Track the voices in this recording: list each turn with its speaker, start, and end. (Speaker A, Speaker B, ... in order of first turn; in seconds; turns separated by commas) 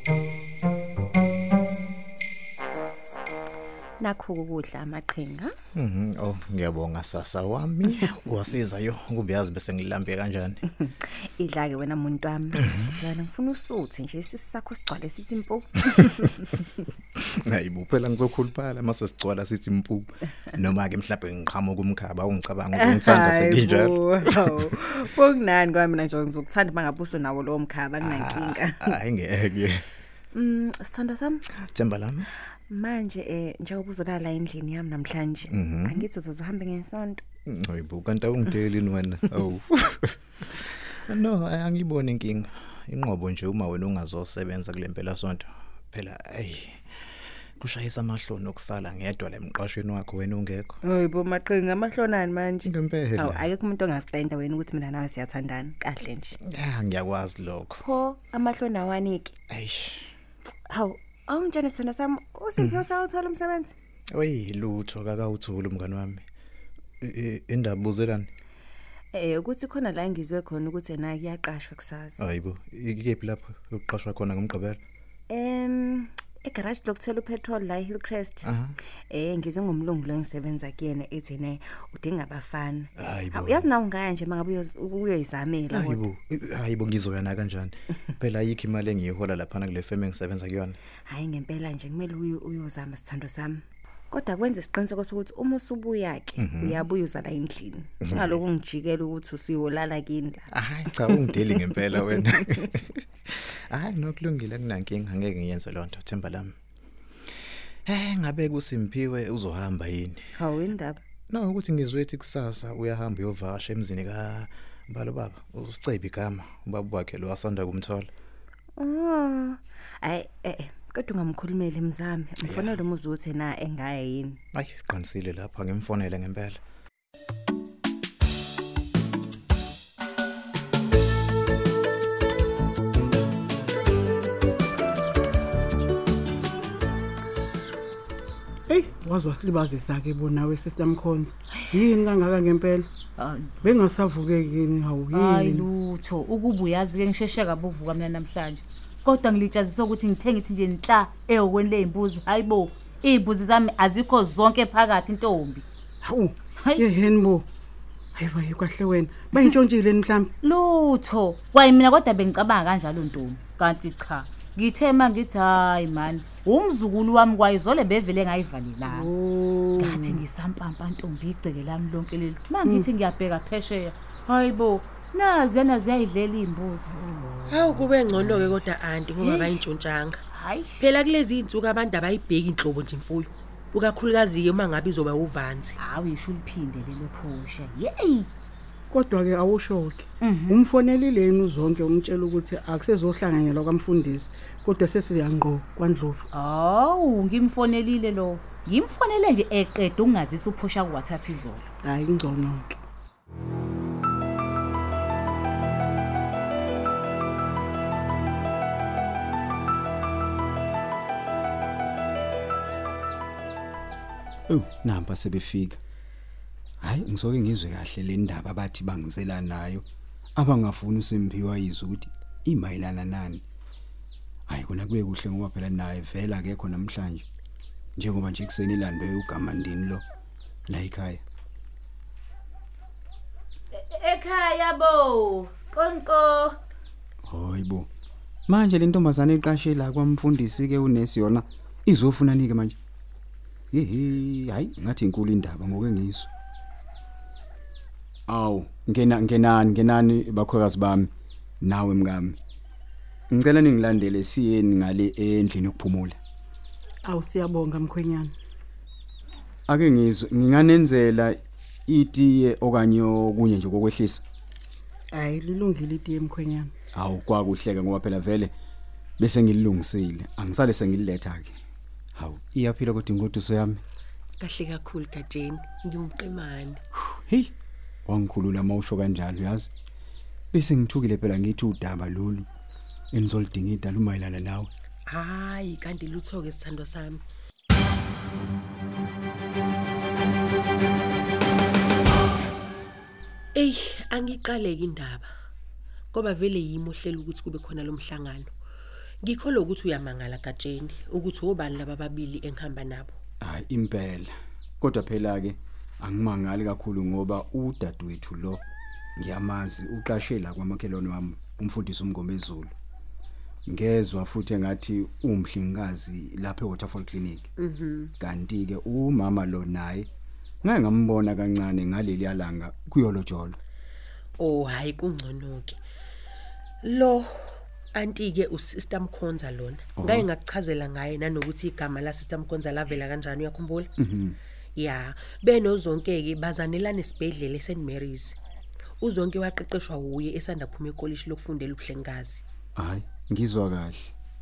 Speaker A: 4.0-5.5, Speaker B: 5.7-10.6, Speaker A: 10.8-16.5, Speaker B: 12.6-12.9, Speaker B: 17.2-24.7, Speaker A: 22.7-28.9, Speaker B: 28.0-29.9, Speaker A: 30.3-31.4, Speaker B: 31.6-32.3, Speaker A: 32.7-37.2, Speaker B: 35.5-36.1, Speaker B: 37.5-47.0, Speaker B: 47.6-50.8, Speaker A: 50.8-56.3, Speaker B: 52.6-53.5, Speaker B: 56.5-57.8, Speaker A: 57.8-59.4, Speaker B: 59.5-60.1, Speaker A: 60.7-63.7, Speaker B: 62.6-62.9, Speaker B: 64.1-66.2, Speaker B: 67.0-68.3, Speaker A: 69.1-72.2, Speaker B: 72.2-74.8, Speaker A: 75.3-78.5, Speaker B: 78.4-78.7, Speaker A: 79.1-86.0, Speaker B: 83.0-83.7, Speaker B: 85.7-90.8, Speaker A: 91.1-100.5, Speaker B: 96.4-96.8, Speaker B: 98.0-98.4, Speaker B: 100.5-106.5, Speaker B: 107.9-110.3, Speaker A: 110.4-111.0, Speaker B: 111.3-118.1, Speaker A: 118.8-124.4, Speaker B: 122.4-122.8, Speaker B: 124.5-126.6, Speaker C: 138.7-142.9, Speaker D: 143.2-143.7, Speaker C: 143.6-145.7, Speaker D: 145.1-155.6, Speaker C: 156.0-157.4, Speaker D: 156.6-156.8, Speaker C: 158.2-160.3, Speaker D: 160.4-169.1, Speaker C: 168.8-170.2, Speaker D: 169.8-177.1, Speaker E: 177.5-180.2, Speaker D: 179.2-179.5, Speaker D: 180.3-180.8, Speaker E: 180.8-185.8, Speaker D: 185.8-188.3, Speaker C: 188.9-196.2, Speaker D: 190.2-190.6, Speaker D: 196.3-201.6, Speaker C: 201.8-202.7, Speaker F: 214.5-215.8, Speaker F: 216.8-219.8, Speaker F: 220.3-223.4, Speaker F: 224.5-227.2, Speaker F: 228.0-230.0, Speaker F: 230.7-231.2, Speaker D: 233.7-236.6, Speaker F: 237.2-237.9, Speaker F: 238.5-242.8, Speaker F: 243.7-246.3, Speaker F: 248.3-251.1, Speaker F: 251.6-252.3, Speaker F: 253.3-256.2, Speaker C: 257.0-258.3, Speaker F: 259.7-264.2, Speaker C: 265.1-266.7, Speaker F: 266.9-268.5, Speaker F: 269.2-271.6, Speaker F: 272.1-273.8, Speaker E: 274.4-276.8, Speaker F: 277.1-277.5, Speaker F: 278.1-279.7, Speaker F: 280.5-282.5, Speaker F: 283.1-284.7, Speaker E: 285.1-287.2, Speaker E: 293.5-295.3, Speaker E: 296.1-298.5, Speaker E: 299.2-303.1, Speaker F: 303.4-308.6, Speaker F: 309.2-312.7, Speaker F: 313.7-317.5, Speaker E: 317.6-318.1, Speaker F: 318.2-320.1, Speaker F: 320.6-323.6, Speaker E: 324.4-325.8, Speaker E: 326.8-333.9, Speaker F: 330.0-330.3, Speaker F: 334.0-334.4, Speaker E: 334.8-338.4, Speaker E: 339.0-342.4, Speaker F: 342.8-344.1